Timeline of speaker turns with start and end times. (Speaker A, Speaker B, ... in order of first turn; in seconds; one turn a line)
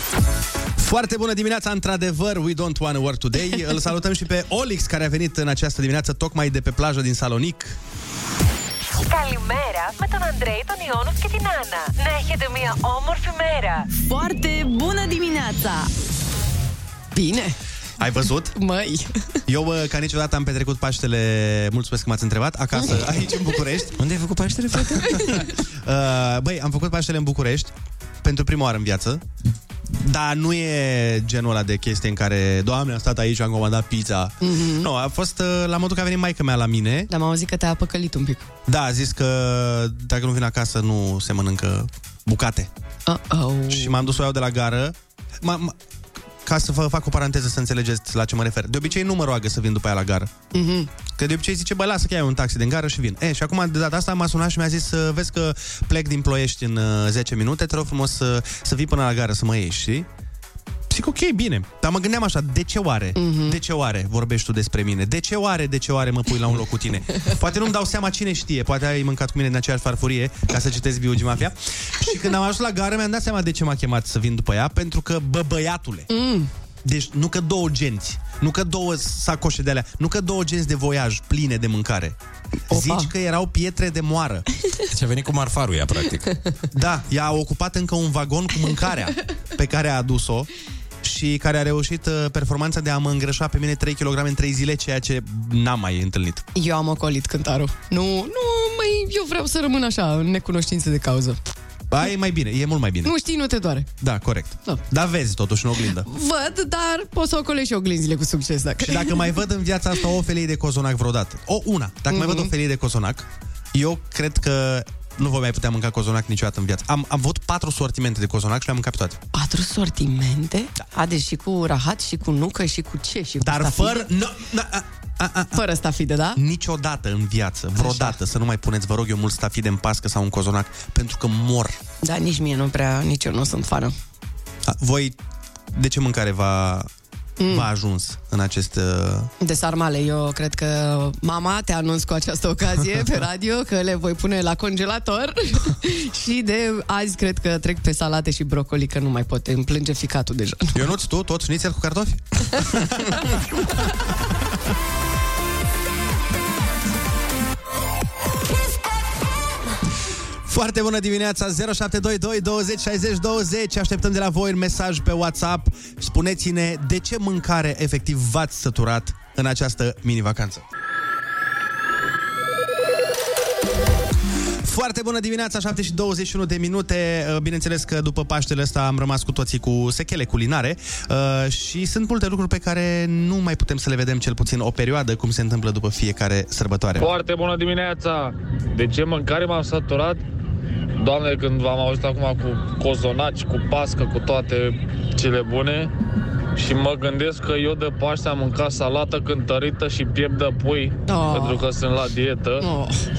Speaker A: 0.8-7.8
Speaker B: 8.9-15.9
Speaker C: 17.1-17.6
Speaker A: 18.0-18.6
Speaker C: 18.6-19.4
Speaker A: 19.5-23.9
Speaker D: 24.0-25.2
Speaker A: 24.9-25.3
Speaker C: 25.1-25.4
Speaker A: 25.8-29.2
Speaker A: 29.9-37.1
Speaker C: 34.4-34.9
Speaker C: 37.1-38.5
Speaker A: 38.7-42.7
Speaker C: 43.1-44.1
Speaker A: 43.7-45.8
Speaker A: 46.4-50.3
Speaker C: 50.5-50.9
Speaker A: 51.1-60.1
Speaker A: 60.9-76.1
Speaker C: 63.2-63.6
Speaker C: 76.1-76.5
Speaker A: 76.8-82.2
Speaker C: 82.7-83.1
Speaker A: 82.7-84.5
Speaker D: 84.9-86.4
Speaker A: 86.7-90.5
Speaker A: 91.0-96.4
Speaker C: 96.5-101.4
Speaker A: 101.9-103.1
Speaker C: 103.0-103.9
Speaker A: 104.0-106.1
Speaker C: 106.0-109.4
Speaker A: 108.8-119.2
Speaker C: 112.1-112.5
Speaker C: 119.3-124.0
Speaker A: 123.4-125.6
Speaker C: 125.5-126.4
Speaker A: 126.3-131.8
Speaker C: 127.8-128.1
Speaker C: 132.0-133.9
Speaker A: 134.7-135.2
Speaker A: 135.7-136.9
Speaker C: 137.4-137.7
Speaker A: 137.5-139.3
Speaker C: 139.4-150.7
Speaker A: 150.7-153.3
Speaker B: 158.3-159.8
Speaker A: 160.4-170.6
Speaker A: 174.6-187.1
Speaker E: 187.0-190.2
Speaker E: 191.0-195.9
Speaker E: 196.6-202.7
Speaker C: 201.1-201.7
Speaker C: 202.6-203.0